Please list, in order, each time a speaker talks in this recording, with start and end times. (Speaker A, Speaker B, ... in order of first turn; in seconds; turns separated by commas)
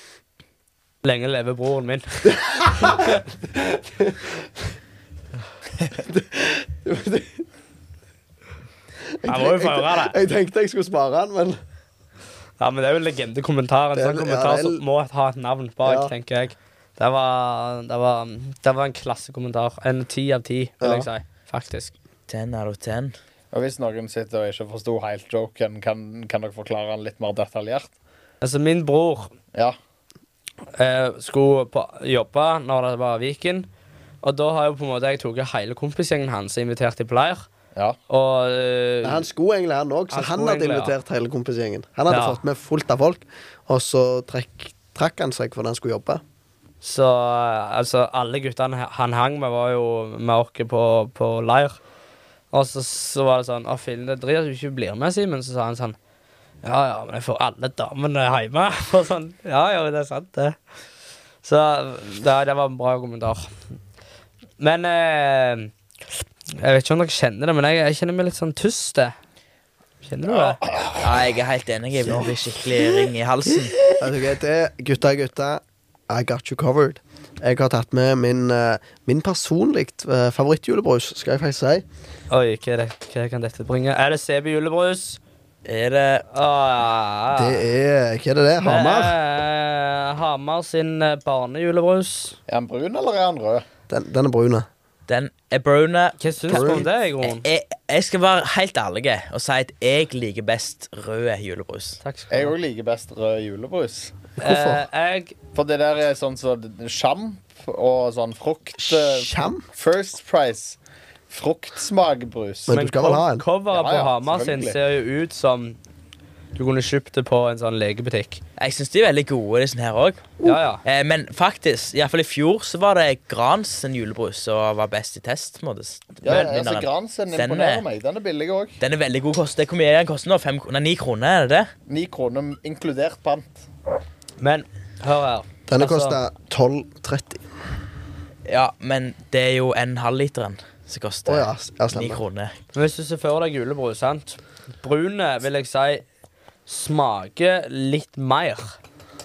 Speaker A: 1.0-3.1, Speaker B: 2.3-4.5, Speaker B: 6.0-7.4, Speaker B: 9.2-11.6, Speaker A: 9.2-10.2, Speaker A: 12.6-21.9, Speaker B: 13.9-14.8, Speaker B: 15.8-16.1, Speaker B: 20.8-21.1, Speaker C: 22.3-23.1, Speaker D: 23.5-27.9, Speaker A: 28.4-29.3, Speaker A: 30.8-33.7, Speaker A: 34.2-37.4, Speaker A: 38.1-39.2, Speaker B: 39.0-46.2, Speaker A: 40.1-40.9, Speaker A: 42.1-42.4, Speaker A: 46.8-51.8, Speaker A: 52.5-56.0, Speaker A: 56.6-60.5, Speaker A: 61.4-63.5, Speaker A: 64.6-65.7, Speaker A: 66.6-69.1, Speaker A: 70.0-70.6, Speaker D: 70.3-71.2, Speaker C: 71.0-73.9, Speaker B: 74.0-81.8, Speaker A: 82.3-85.2, Speaker C: 85.6-86.2, Speaker A: 86.3-87.7, Speaker B: 87.3-89.2, Speaker A: 88.6-92.4, Speaker D: 92.5-93.7, Speaker B: 93.9-94.7, Speaker C: 95.1-102.0, Speaker A: 96.2-97.5, Speaker B: 96.5-96.8, Speaker A: 102.0-102.5, Speaker D: 102.3-104.2, Speaker B: 104.4-104.8, Speaker A: 104.4-105.3, Speaker D: 105.5-110.8, Speaker B: 108.8-109.6, Speaker D: 111.3-112.8, Speaker B: 112.7-113.4, Speaker A: 112.7-115.8, Speaker D: 113.7-114.8, Speaker A: 116.5-118.4, Speaker C: 118.6-127.8, Speaker A: 120.4-120.8, Speaker D: 126.2-128.8, Speaker A: 126.2-126.5, Speaker C: 128.8-131.7, Speaker D: 131.9-133.6, Speaker A: 134.4-136.2, Speaker B: 135.7-137.5, Speaker C: 138.5-142.5, Speaker B: 141.3-142.2, Speaker A: 142.7-146.0, Speaker A: 146.7-148.8